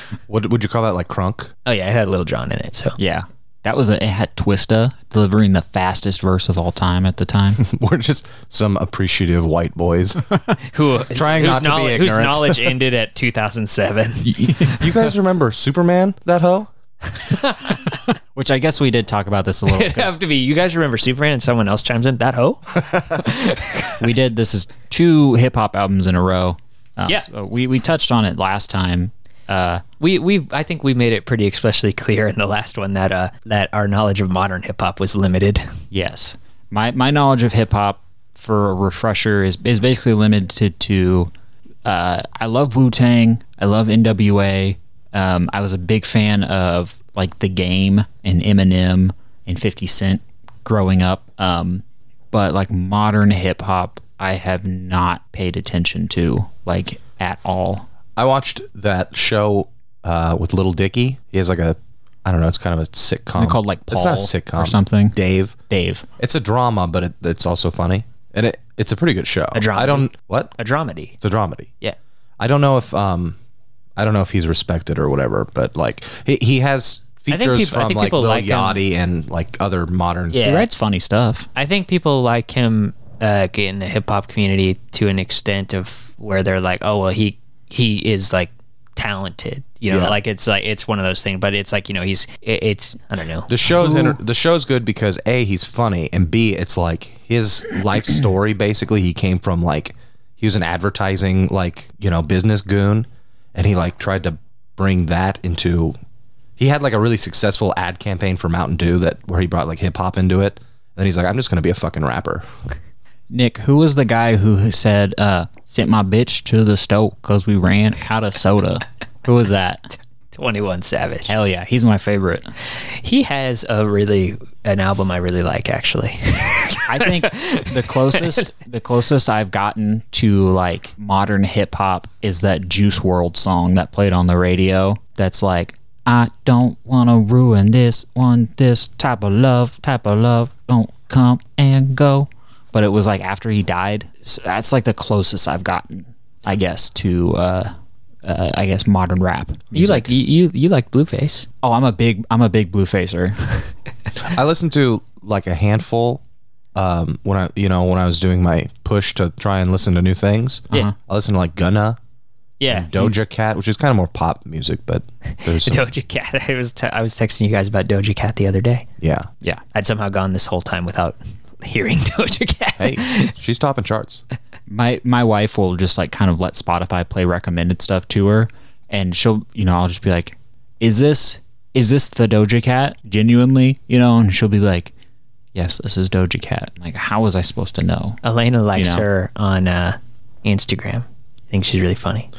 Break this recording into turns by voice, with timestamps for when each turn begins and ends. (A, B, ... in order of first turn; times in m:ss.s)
0:00.3-0:01.5 A
0:01.7-0:03.0 B
0:03.0-0:07.6 C
0:07.6-0:10.2 A
0:10.7-0:14.8 B
0:11.1-0:12.8 A
0:14.4-0:16.7 A
0:17.1-0:18.0 B
0:17.7-0:20.2 C
0:19.7-0:24.0 B
0:24.0-0:29.8 C
0:30.0-0:35.7 B
0:35.9-0:41.3 C
0:41.8-0:57.8 C
0:58.2-1:05.6 A
1:03.4-1:05.2 C
1:05.7-1:06.1 C
1:06.2-1:10.5 A
1:09.5-1:11.2 B
1:11.2-1:11.7 A
1:12.4-1:13.4 A
1:14.0-1:20.4 A
1:17.3-1:18.8 B
1:20.3-1:20.7 B
1:20.4-1:21.5 C
1:21.6-1:33.5 B
1:33.5-1:46.0 A
1:33.8-1:34.1 C
1:46.6-1:52.4 A
1:53.3-1:59.9 C
2:00.3-2:01.3 B
2:01.3-2:02.5 C
2:02.9-2:08.5 B
2:06.9-2:27.7 C
2:28.2-2:30.1 C
2:29.7-2:31.5 B
2:31.6-2:33.6 C
2:34.2-2:36.2 A
2:36.8-2:42.0 A
2:42.6-2:42.9 B
2:42.7-2:45.9 A
2:45.3-2:48.9 B
2:49.0-2:49.3 A
2:49.7-2:53.3 B
2:52.8-2:54.2 A
2:54.7-3:04.9 C
3:05.6-3:08.2 C
3:08.2-3:12.3 B
3:08.8-3:09.0 C